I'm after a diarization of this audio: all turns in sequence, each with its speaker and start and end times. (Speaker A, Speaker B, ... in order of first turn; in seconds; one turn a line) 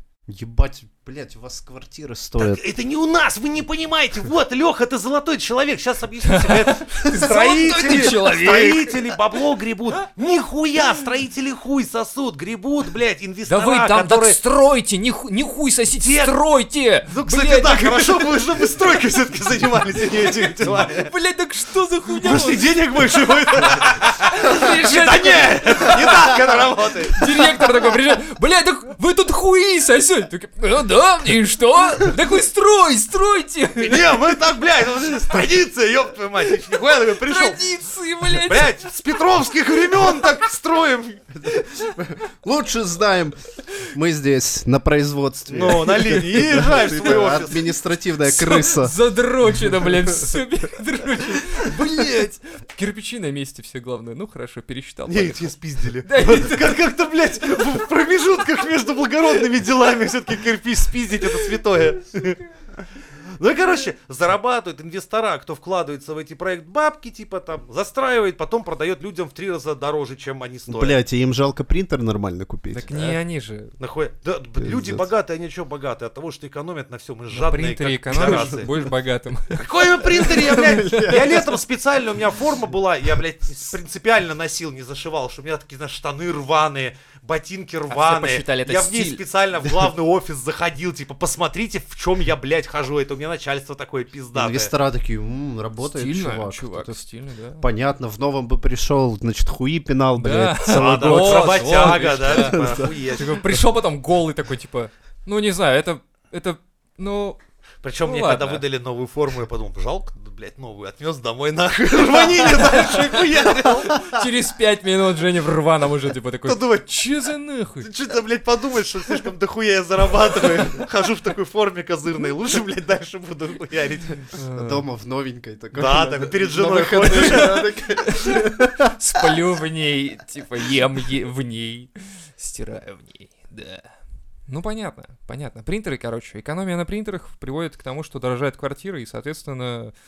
Speaker A: 0.3-2.6
Speaker B: 2.4-14.4
Speaker C: 6.3-9.2
Speaker C: 13.5-18.8
Speaker B: 16.0-16.3
Speaker B: 17.1-21.1
Speaker C: 20.0-34.4
Speaker B: 22.2-27.4
Speaker B: 33.8-37.6
Speaker C: 36.6-38.7
Speaker B: 38.3-41.3
Speaker A: 41.4-49.0
Speaker B: 45.5-47.6
Speaker C: 48.2-56.9
Speaker B: 55.1-62.4
Speaker B: 63.4-71.0
Speaker A: 70.7-72.8
Speaker C: 72.7-73.8
Speaker B: 72.9-73.2
Speaker B: 73.8-78.7
Speaker A: 74.6-75.0
Speaker C: 77.3-81.2
Speaker A: 78.1-78.8
Speaker B: 79.5-94.7
Speaker A: 80.1-81.4
Speaker C: 87.9-89.2
Speaker A: 94.3-97.0
Speaker C: 95.8-97.6
Speaker A: 97.6-102.9
Speaker C: 100.2-107.4
Speaker B: 100.7-103.4
Speaker B: 107.8-114.2
Speaker C: 108.0-108.6
Speaker C: 112.1-117.9
Speaker B: 116.4-116.9
Speaker B: 117.8-124.3
Speaker C: 124.3-124.8
Speaker A: 124.5-129.3
Speaker B: 125.7-127.6
Speaker C: 127.2-133.9
Speaker C: 134.5-139.9